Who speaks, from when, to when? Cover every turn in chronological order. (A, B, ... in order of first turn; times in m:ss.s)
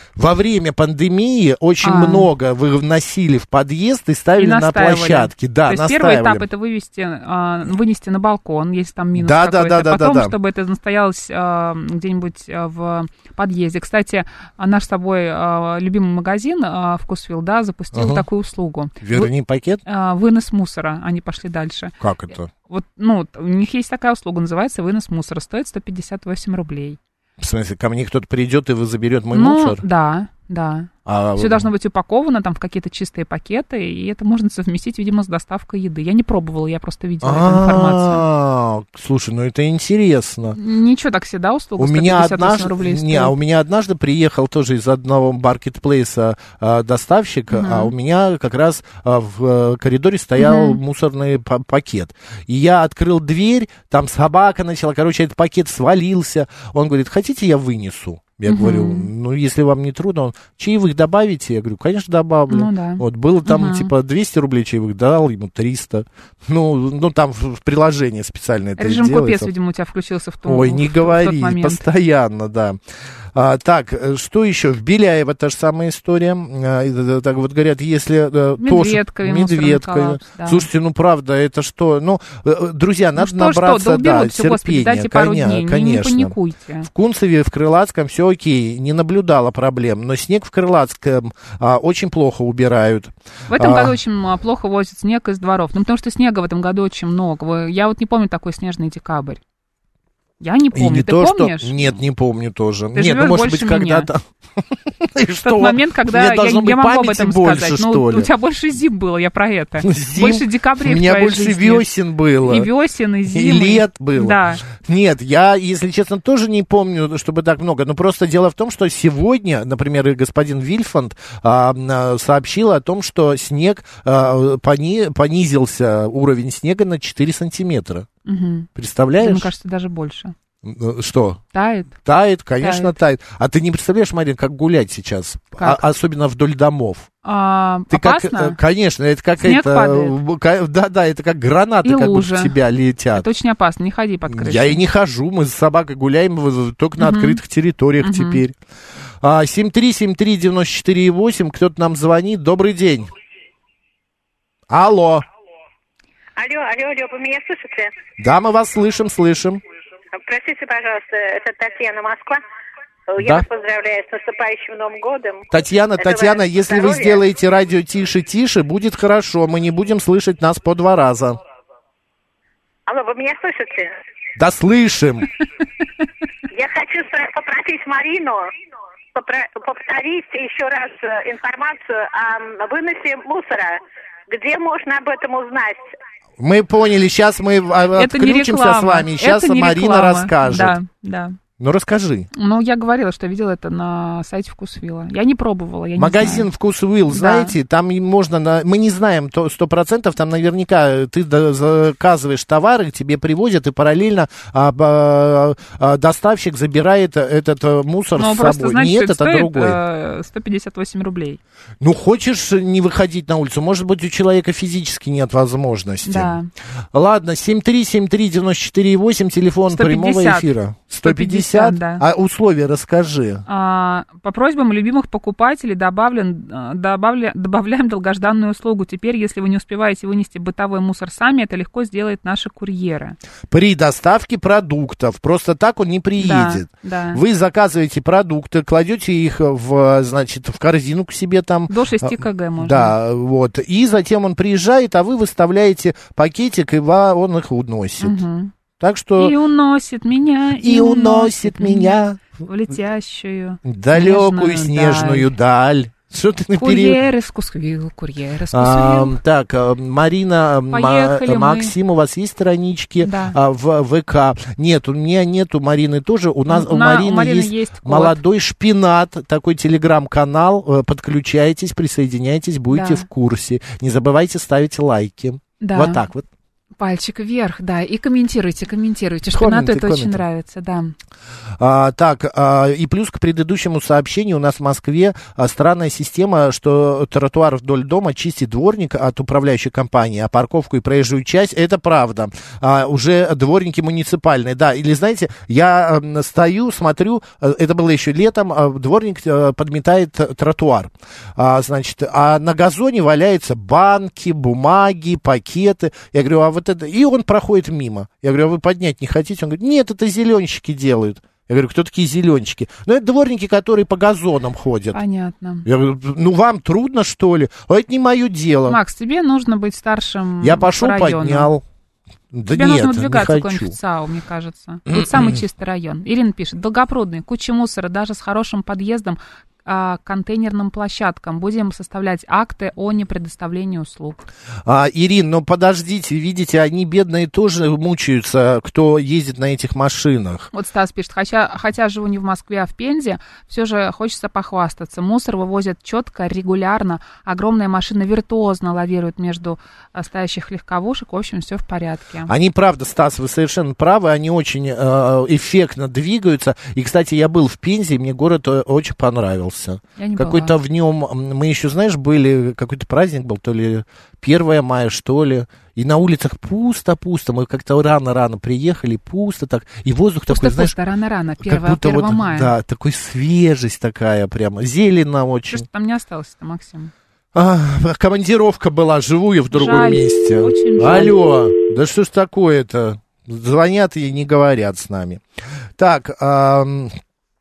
0:00.2-0:06.5 A
0:01.8-0:02.3 B
0:04.4-0:19.3 B
0:09.2-0:10.4 A
0:17.9-0:18.3 A
0:19.0-0:19.8 A
0:19.9-0:22.0 B
0:22.0-0:22.5 A
0:22.7-0:27.0 B
0:27.4-0:29.8 A
0:29.3-0:38.2 B
0:31.0-0:31.7 A
0:37.2-0:40.6 A
0:40.6-0:43.4 B
0:41.8-1:09.5 A
0:47.5-0:47.9 B
0:50.4-0:50.8 B
0:58.5-0:59.1 B
1:02.5-1:03.9 B
1:08.8-1:11.8 B
1:10.5-1:12.8 A
1:13.3-1:34.0 A
1:18.6-1:20.7 B
1:23.2-1:26.9 B
1:33.5-1:39.4 B
1:40.4-1:41.9 B
1:40.7-1:48.3 A
1:43.0-1:44.1 B
1:45.4-1:51.9 B
1:49.8-1:52.7 A
1:52.4-1:54.6 B
1:53.3-2:08.1 A
2:08.3-2:08.7 B
2:08.8-2:09.5 A
2:09.2-2:10.4 B
2:10.6-2:11.4 A
2:11.5-2:11.9 B
2:12.0-2:17.1 A
2:12.6-2:12.9 B
2:15.6-2:15.8 B
2:17.2-2:18.6 B
2:17.9-2:23.3 A
2:19.4-2:20.2 B
2:21.8-2:22.6 B
2:23.1-2:24.8 B
2:24.3-2:28.6 A
2:27.0-2:27.4 B
2:28.0-2:28.4 B
2:29.2-2:33.1 A
2:34.7-2:35.2 A
2:36.4-2:37.9 C
2:38.2-2:39.6 A
2:40.2-2:42.4 C
2:43.1-2:45.4 C
2:43.2-2:43.5 A
2:45.5-2:51.4 A
2:46.0-2:47.2 C
2:52.9-2:53.9 C
2:54.4-2:55.3 A
2:56.5-2:58.5 C
2:59.2-3:05.8 C
3:06.4-3:10.8 A
3:08.0-3:11.4 B
3:11.6-3:12.3 A
3:12.3-3:16.5 B
3:16.0-3:29.8 A
3:17.1-3:17.6 B
3:28.2-3:31.4 B
3:31.8-3:36.4 A
3:36.0-3:36.5 B
3:36.9-3:43.4 A
3:39.7-3:40.5 B
3:41.0-3:42.0 B
3:43.5-3:53.2 B
3:53.5-4:08.2 A
3:56.2-3:57.2 B
4:01.7-4:02.9 B
4:08.0-4:08.5 B
4:08.8-4:09.4 A
4:09.2-4:15.3 B
4:10.6-4:12.2 A
4:13.6-4:17.0 A
4:16.6-4:19.2 B
4:18.5-4:36.3 A
4:20.7-4:21.7 B
4:23.0-4:23.4 B
4:26.5-4:28.2 B
4:32.7-4:33.1 B
4:35.6-4:36.0 B
4:36.8-4:40.9 B
4:39.3-4:40.2 A
4:41.6-5:15.0 A
5:14.9-5:15.7 B
5:15.6-5:18.8 A
5:18.7-5:21.5 B
5:20.4-5:21.6 A
5:22.3-5:23.8 A
5:22.5-5:34.3 B
5:24.9-5:25.4 A
5:34.7-5:40.5 A
5:40.5-5:52.3 B
5:52.3-6:10.8 A
6:00.0-6:00.5 B
6:10.3-6:12.5 B
6:11.4-6:15.6 A
6:15.5-6:16.9 B
6:17.3-6:25.2 A
6:19.5-6:21.2 B
6:25.8-6:27.0 A